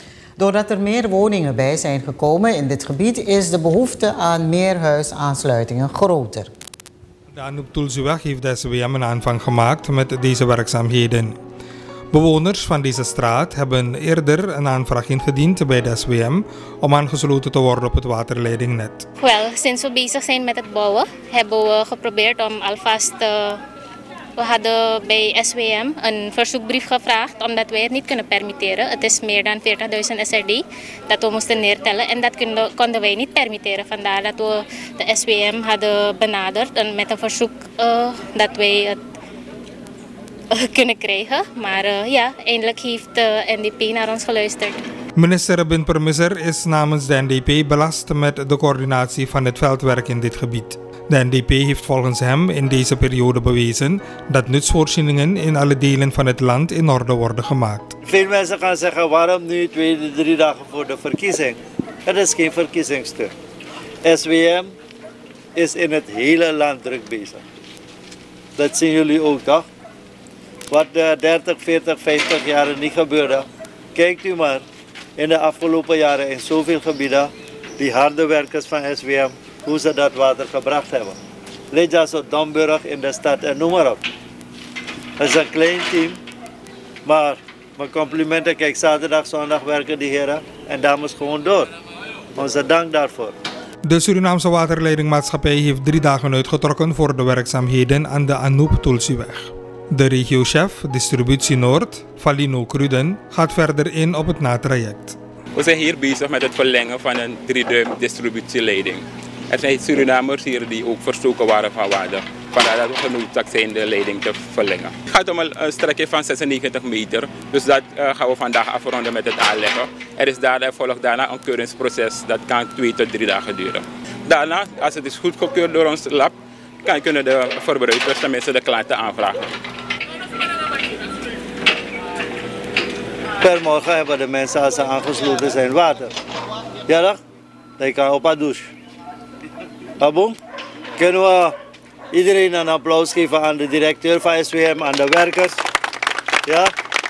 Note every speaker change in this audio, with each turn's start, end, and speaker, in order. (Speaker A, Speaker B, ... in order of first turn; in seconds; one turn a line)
Speaker A: 0.4-6.5
Speaker B: 7.3-11.4
Speaker B: 12.1-19.1
Speaker C: 19.2-23.6
Speaker C: 24.4-39.0
Speaker C: 40.5-44.8
Speaker B: 45.1-58.0
Speaker D: 58.0-63.3
Speaker D: 64.0-64.7
Speaker D: 65.5-67.4
Speaker D: 68.6-69.7
Speaker D: 70.7-74.6
Speaker D: 75.2-81.2
Speaker D: 81.7-84.0
Speaker D: 85.2-86.2
Speaker D: 87.0-91.7
Speaker D: 92.3-93.3
Speaker B: 93.9-105.2
Speaker E: 105.5-129.5
Speaker D: 133.4-136.1
Speaker D: 136.9-137.2
Speaker D: 137.8-138.7
Speaker D: 140.0-140.4
Speaker D: 141.0-141.6
Speaker D: 142.1-145.6
Speaker D: 146.4-146.7